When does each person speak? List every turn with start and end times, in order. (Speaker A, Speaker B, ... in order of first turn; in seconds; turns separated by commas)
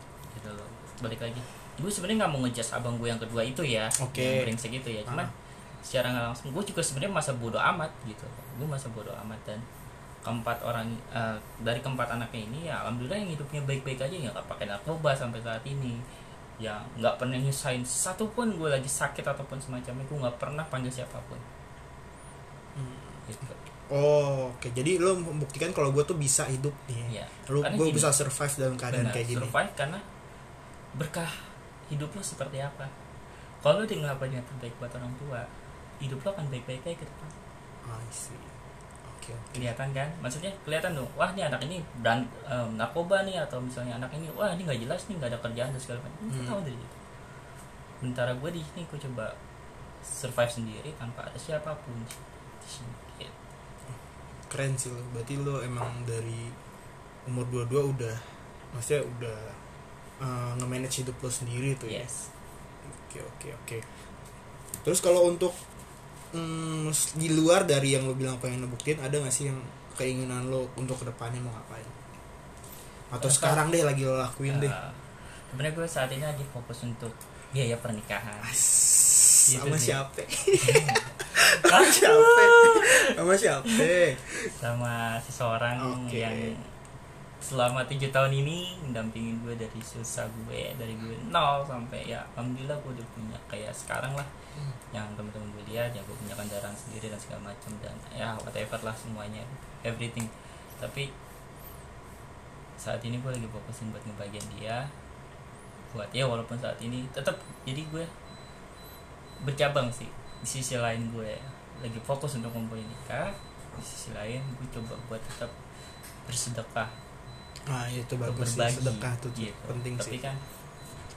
Speaker A: 0.3-5.3, Speaker B: 4.0-4.5, Speaker B: 5.0-5.3, Speaker A: 5.8-9.6, Speaker A: 10.2-16.0, Speaker A: 16.6-21.4, Speaker B: 22.7-23.3, Speaker A: 23.2-23.6, Speaker B: 23.9-29.5, Speaker A: 27.1-28.1, Speaker A: 28.9-30.0, Speaker A: 30.9-32.9, Speaker A: 33.6-35.5, Speaker A: 36.0-37.3, Speaker B: 37.8-39.7, Speaker A: 39.5-47.0, Speaker B: 46.3-46.6, Speaker A: 48.0-49.4, Speaker A: 50.0-53.3, Speaker B: 54.5-56.5, Speaker B: 57.2-59.6, Speaker B: 60.2-62.1, Speaker A: 61.9-62.3, Speaker B: 62.8-63.9, Speaker B: 64.8-65.5, Speaker B: 66.3-71.9, Speaker B: 73.1-74.8, Speaker A: 73.2-73.6, Speaker A: 74.5-78.6, Speaker B: 78.4-84.5, Speaker A: 79.5-80.0, Speaker A: 80.6-83.9, Speaker A: 84.5-86.7, Speaker B: 85.8-86.5, Speaker A: 87.4-94.3, Speaker A: 94.9-101.1, Speaker A: 102.8-104.9, Speaker A: 105.9-108.1, Speaker A: 109.4-115.5, Speaker A: 116.2-116.9, Speaker B: 117.7-120.2, Speaker A: 118.2-120.4